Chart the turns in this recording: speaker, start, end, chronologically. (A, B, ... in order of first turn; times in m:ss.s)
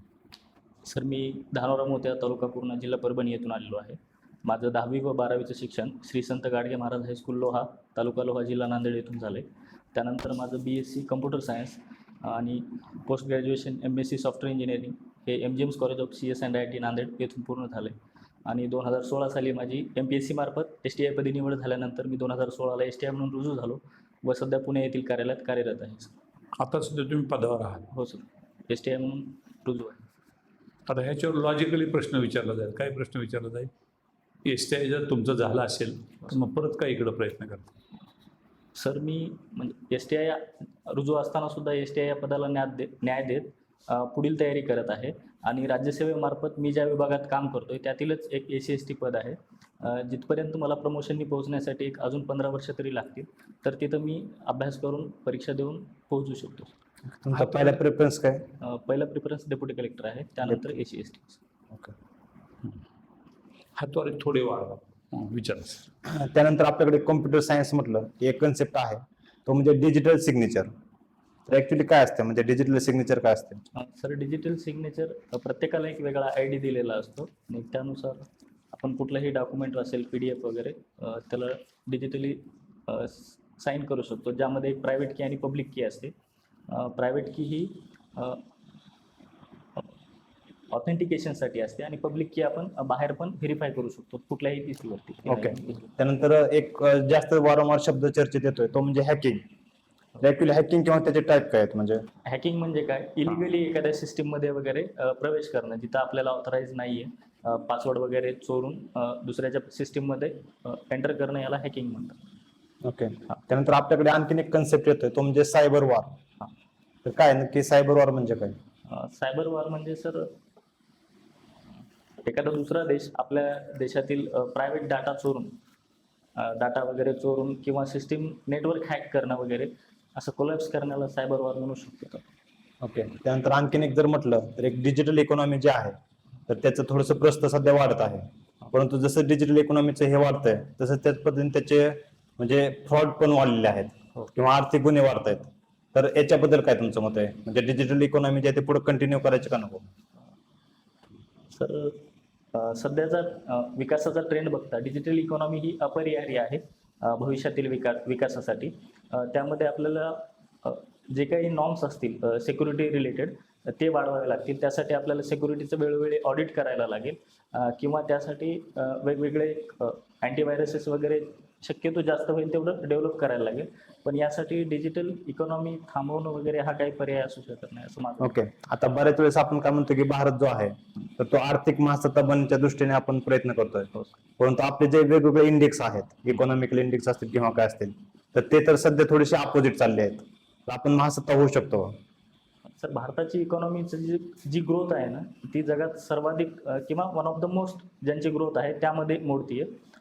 0:00.8-0:26.1 A
0:26.6-0:27.9 B
0:27.9-0:30.1 A
0:30.9-0:33.7 B
0:34.4-0:37.7 B
0:38.8-0:56.7 A
0:57.1-0:58.4 C
0:57.3-0:57.8 B
0:58.6-1:01.4 A
1:03.8-1:05.9 B
1:06.0-1:10.7 C
1:11.5-1:13.6 C
1:13.7-1:26.1 A
1:26.7-1:28.4 A
1:30.7-1:35.9 A
1:35.3-1:39.4 C
1:40.2-1:42.0 C
1:42.2-1:52.2 A
1:52.8-1:56.2 C
1:57.0-1:58.6 C
1:58.9-2:00.3 A
2:02.2-2:05.5 A
2:06.4-2:12.2 A
2:12.8-2:16.0 C
2:16.5-2:29.9 C
2:31.5-2:58.4 A
2:58.2-3:12.0 C
3:12.8-3:19.7 A